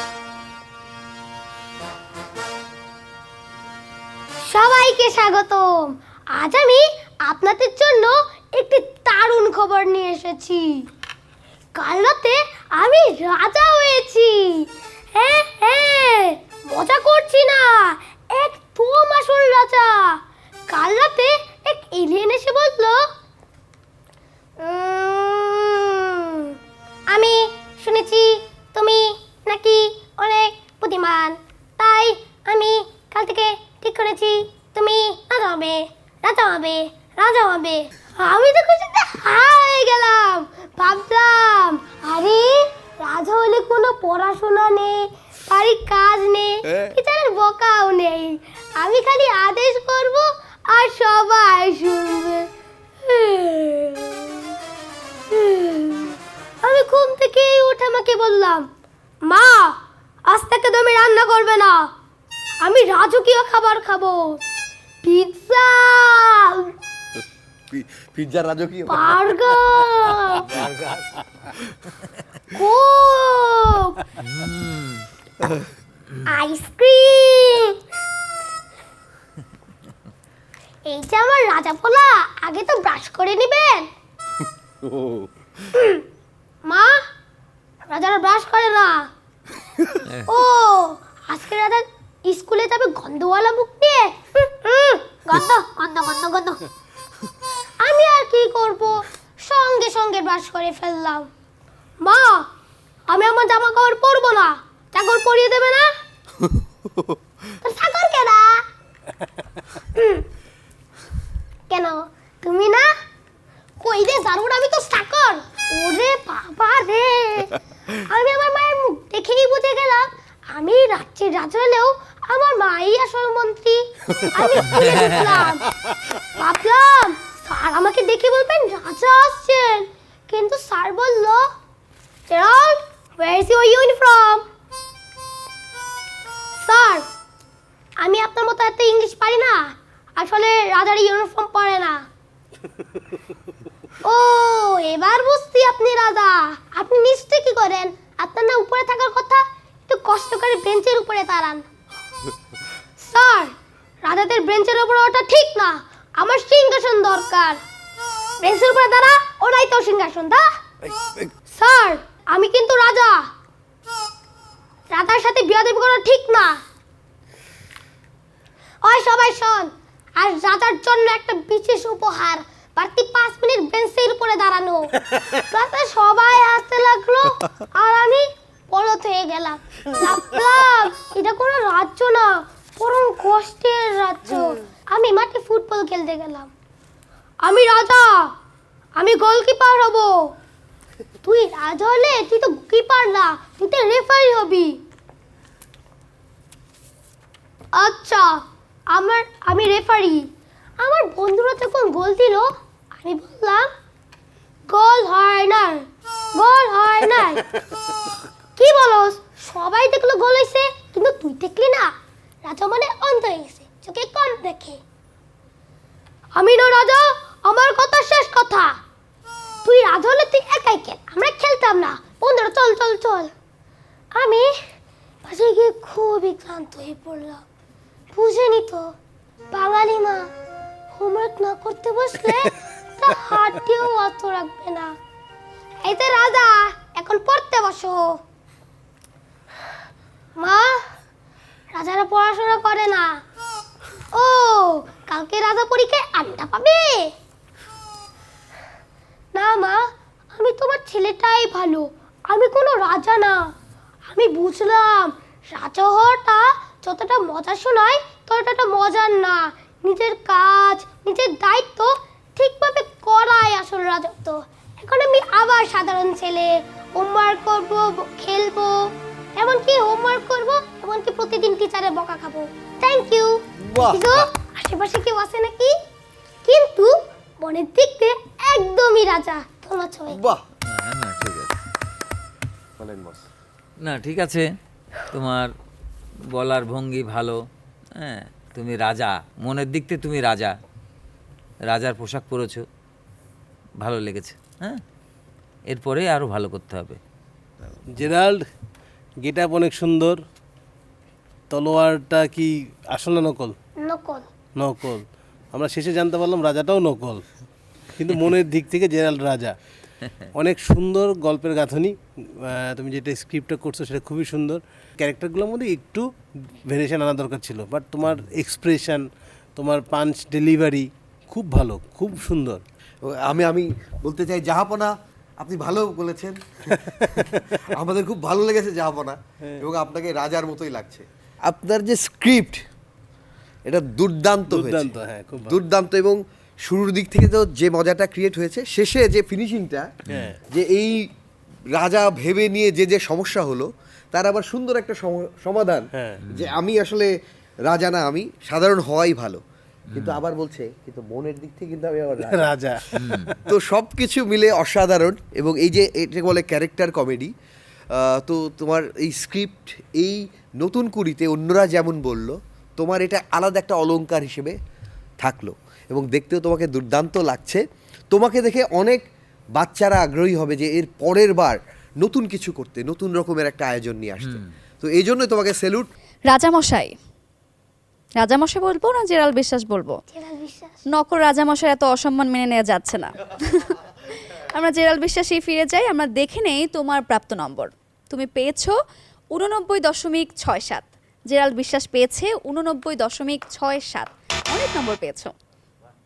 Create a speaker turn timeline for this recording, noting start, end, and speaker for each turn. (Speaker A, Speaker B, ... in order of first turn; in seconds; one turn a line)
Speaker A: 4.5-10.8
Speaker A: 11.8-23.0
Speaker A: 24.6-26.6
Speaker A: 27.1-52.5
Speaker A: 53.0-54.4
Speaker A: 55.3-58.6
Speaker A: 59.2-61.9
Speaker A: 62.6-64.4
Speaker A: 65.0-66.7
Speaker B: 67.7-69.2
Speaker A: 68.9-70.6
Speaker C: 70.6-71.0
Speaker A: 72.5-74.0
Speaker C: 74.2-75.0
Speaker A: 76.2-77.7
Speaker A: 80.9-83.9
Speaker B: 84.8-85.3
Speaker A: 85.8-86.0
Speaker A: 86.6-87.0
Speaker A: 87.9-89.1
Speaker C: 90.1-90.3
Speaker A: 90.2-96.7
Speaker A: 97.8-101.3
Speaker A: 102.0-102.5
Speaker A: 103.1-105.9
Speaker A: 107.6-108.6
Speaker A: 109.9-110.2
Speaker A: 111.7-112.9
Speaker A: 113.8-125.7
Speaker A: 126.3-131.4
Speaker A: 132.3-134.4
Speaker A: 136.6-137.1
Speaker A: 138.0-142.1
Speaker A: 144.0-151.7
Speaker A: 153.0-157.6
Speaker A: 158.4-160.4
Speaker B: 161.0-161.3
Speaker A: 161.5-163.3
Speaker A: 164.9-166.6
Speaker A: 168.8-186.5
Speaker A: 187.4-188.3
Speaker A: 189.0-190.3
Speaker A: 191.2-194.8
Speaker A: 197.7-200.2
Speaker A: 200.8-202.5
Speaker A: 203.0-203.7
Speaker A: 204.7-207.4
Speaker A: 208.6-211.9
Speaker A: 212.4-214.8
Speaker A: 216.3-218.7
Speaker A: 219.6-223.3
Speaker A: 224.1-224.5
Speaker A: 225.2-227.4
Speaker A: 228.1-228.8
Speaker A: 229.5-230.3
Speaker A: 230.9-234.9
Speaker A: 235.8-238.2
Speaker A: 240.4-240.8
Speaker A: 241.7-243.2
Speaker A: 244.1-247.1
Speaker A: 249.3-253.4
Speaker A: 254.1-275.7
Speaker B: 273.6-274.3
Speaker A: 276.4-280.2
Speaker B: 280.1-280.4
Speaker C: 280.7-281.5
Speaker B: 282.8-283.2
Speaker C: 283.8-284.5
Speaker C: 285.1-285.5
Speaker C: 286.3-287.4
Speaker C: 287.9-290.6
Speaker C: 291.6-292.6
Speaker C: 293.8-294.8
Speaker C: 295.7-297.0
Speaker D: 297.9-298.5
Speaker D: 299.2-300.2
Speaker D: 301.5-303.6
Speaker A: 303.8-304.3
Speaker D: 304.6-307.2
Speaker D: 307.9-309.6
Speaker D: 310.3-322.6
Speaker B: 323.0-326.4
Speaker D: 326.7-327.6
Speaker B: 327.4-332.6
Speaker B: 333.6-334.9
Speaker D: 334.5-335.6
Speaker B: 335.4-339.9
Speaker D: 340.1-340.4
Speaker B: 340.5-341.1
Speaker B: 341.7-347.1
Speaker D: 345.9-346.2
Speaker C: 346.3-346.5
Speaker B: 347.7-349.4
Speaker C: 349.9-350.2
Speaker B: 349.9-352.5
Speaker D: 352.2-353.4
Speaker B: 353.5-357.3
Speaker B: 357.9-364.6
Speaker B: 365.2-369.0
Speaker B: 369.6-375.9
Speaker E: 376.3-376.9
Speaker E: 378.2-380.0
Speaker A: 380.1-380.8
Speaker E: 380.9-383.8
Speaker E: 384.4-388.8
Speaker E: 389.3-395.3